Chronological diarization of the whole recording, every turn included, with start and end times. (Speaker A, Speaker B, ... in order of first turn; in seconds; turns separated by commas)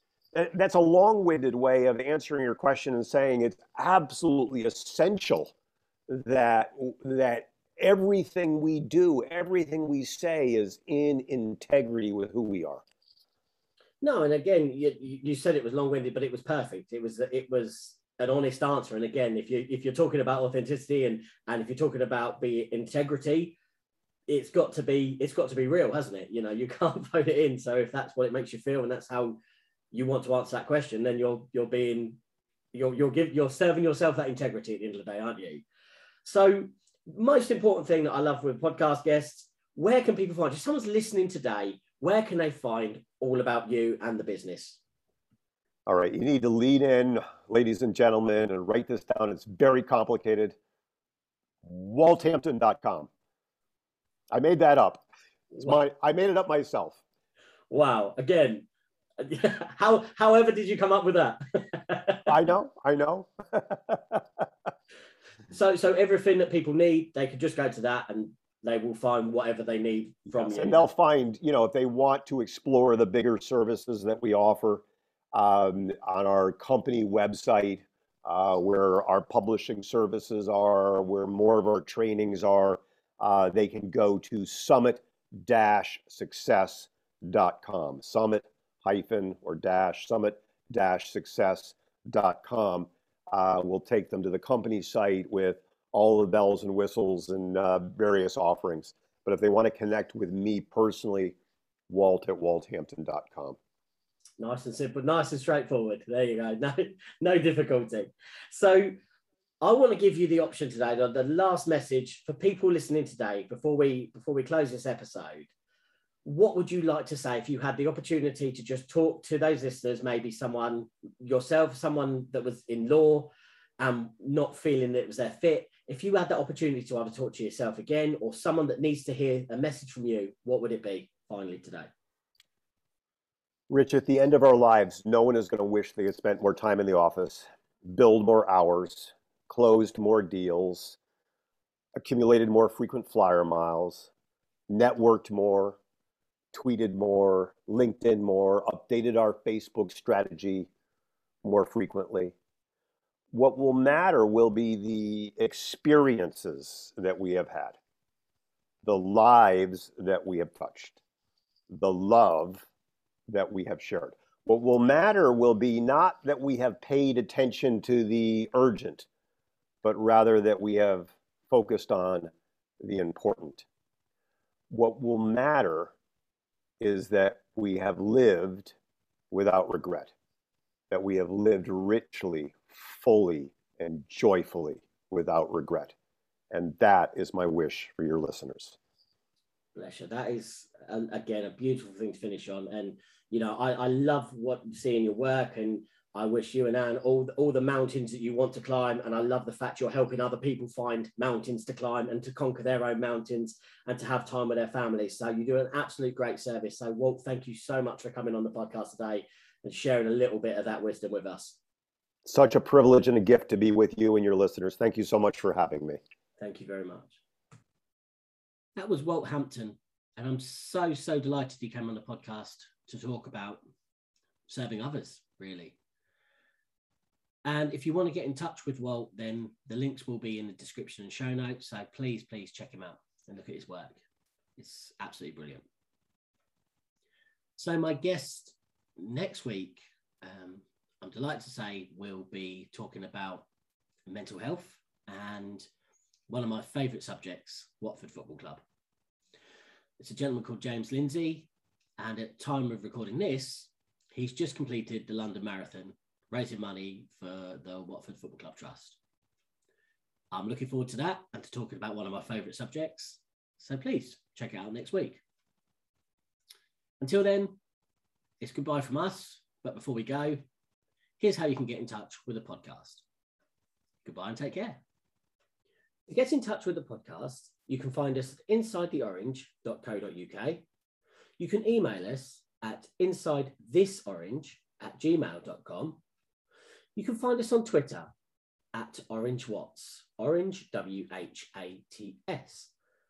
Speaker A: 0.3-5.5, Speaker A: 6.1-12.8, Speaker B: 14.0-23.6, Speaker B: 24.3-29.4, Speaker B: 29.9-32.2, Speaker B: 32.7-35.6, Speaker B: 36.2-44.8, Speaker A: 45.9-50.6, Speaker A: 51.6-53.1, Speaker A: 54.3-57.0, Speaker B: 57.7-58.7, Speaker B: 59.2-62.3, Speaker A: 62.3-64.5, Speaker B: 65.5-70.9, Speaker A: 70.3-101.4, Speaker A: 101.9-103.6, Speaker B: 104.4-108.9, Speaker B: 109.6-115.5, Speaker B: 116.2-131.9, Speaker A: 133.7-141.0, Speaker A: 142.0-144.1, Speaker A: 144.7-145.8, Speaker A: 146.5-150.7, Speaker A: 151.4-152.4, Speaker A: 153.3-157.8, Speaker A: 158.8-161.0, Speaker A: 161.7-162.7, Speaker A: 163.3-169.1, Speaker A: 169.8-173.7, Speaker A: 174.7-175.9, Speaker A: 176.8-178.8, Speaker A: 179.3-180.1, Speaker A: 180.9-185.9, Speaker A: 186.5-188.8, Speaker B: 189.8-211.6, Speaker A: 212.2-216.0, Speaker B: 216.4-217.2, Speaker B: 218.8-223.6, Speaker B: 224.5-225.8, Speaker B: 227.4-234.0, Speaker B: 234.6-235.6, Speaker B: 237.6-243.5, Speaker B: 244.1-245.7, Speaker B: 246.3-248.6, Speaker B: 250.0-259.0, Speaker B: 260.3-265.2, Speaker B: 267.0-267.6, Speaker B: 268.4-270.4, Speaker B: 271.2-273.0, Speaker B: 274.1-274.8, Speaker B: 276.1-280.6, Speaker B: 281.4-286.0, Speaker B: 287.0-288.1, Speaker B: 288.7-292.7